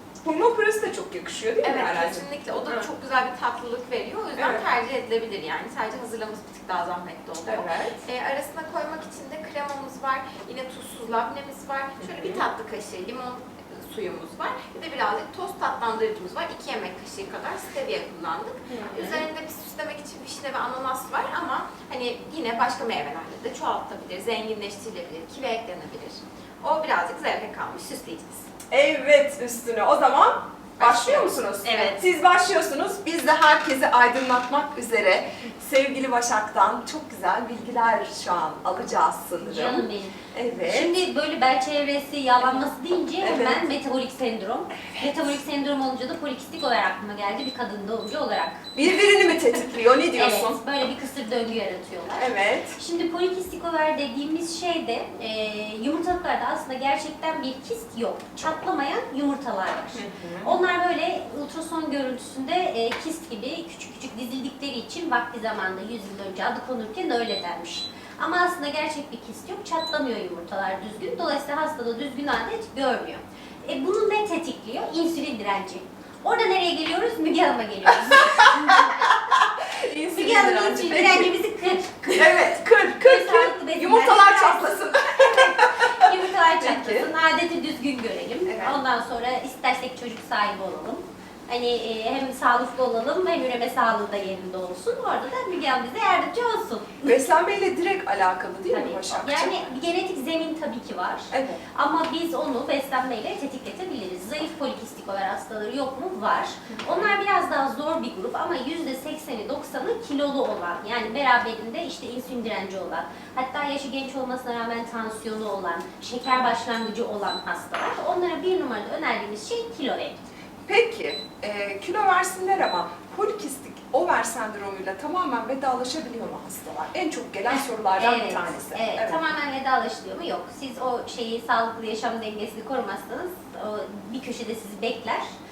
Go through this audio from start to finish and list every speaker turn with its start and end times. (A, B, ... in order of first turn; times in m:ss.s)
0:00.2-0:02.9 A
0:01.6-0:28.5 B
0:04.4-0:04.6 A
0:07.5-0:08.0 A
0:12.0-0:12.4 A
0:18.7-0:19.2 A
0:28.7-0:40.9 A
0:30.8-0:32.0 B
0:39.4-0:48.7 C
0:43.2-0:43.6 A
0:48.8-0:50.6 A
0:50.1-1:19.1 C
0:52.2-0:52.8 A
0:59.9-1:00.6 A
1:18.1-1:21.3 A
1:20.1-1:37.1 C
1:22.1-1:27.1 A
1:28.5-1:28.8 A
1:37.0-1:39.7 A
1:38.7-2:00.2 C
1:41.3-1:41.6 A
1:46.7-1:47.2 A
2:00.7-2:09.2 A
2:08.0-2:15.3 C